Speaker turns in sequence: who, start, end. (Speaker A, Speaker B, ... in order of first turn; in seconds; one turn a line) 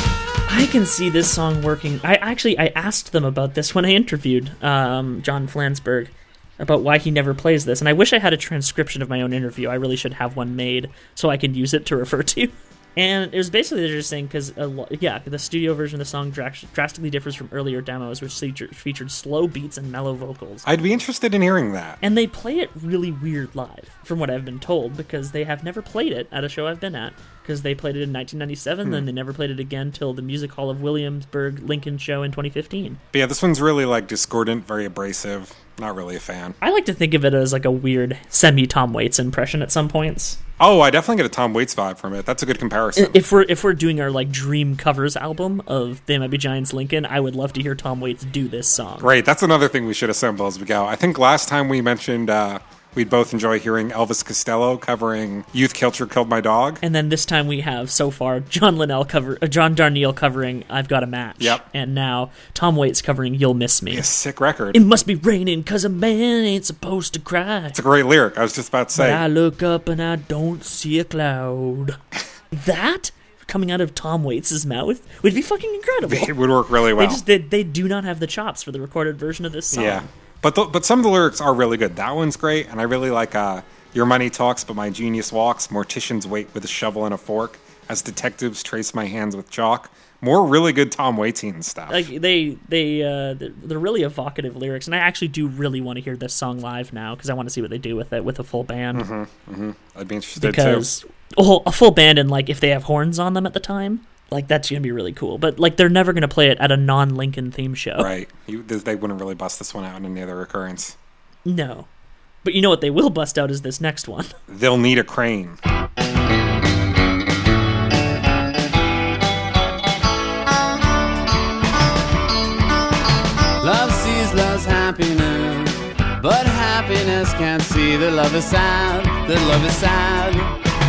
Speaker A: 0.5-20.7
Speaker B: 20.6-22.0
Speaker A: 22.0-33.0
Speaker B: 33.1-36.6
Speaker A: 36.6-40.4
Speaker B: 40.6-43.2
Speaker A: 43.0-49.1
Speaker B: 49.0-56.8
Speaker A: 56.8-64.1
Speaker B: 61.4-61.7
Speaker B: 63.9-64.8
Speaker A: 64.7-67.8
Speaker B: 67.7-69.2
Speaker A: 68.9-72.0
Speaker A: 72.5-76.3
Speaker B: 76.0-77.2
Speaker A: 76.9-80.1
Speaker B: 79.7-92.1
Speaker A: 91.9-99.1
Speaker B: 98.9-100.9
Speaker A: 100.4-108.1
Speaker B: 108.0-111.0
Speaker A: 111.5-111.9
Speaker A: 112.4-114.3
Speaker B: 114.5-115.6
Speaker C: 123.6-130.6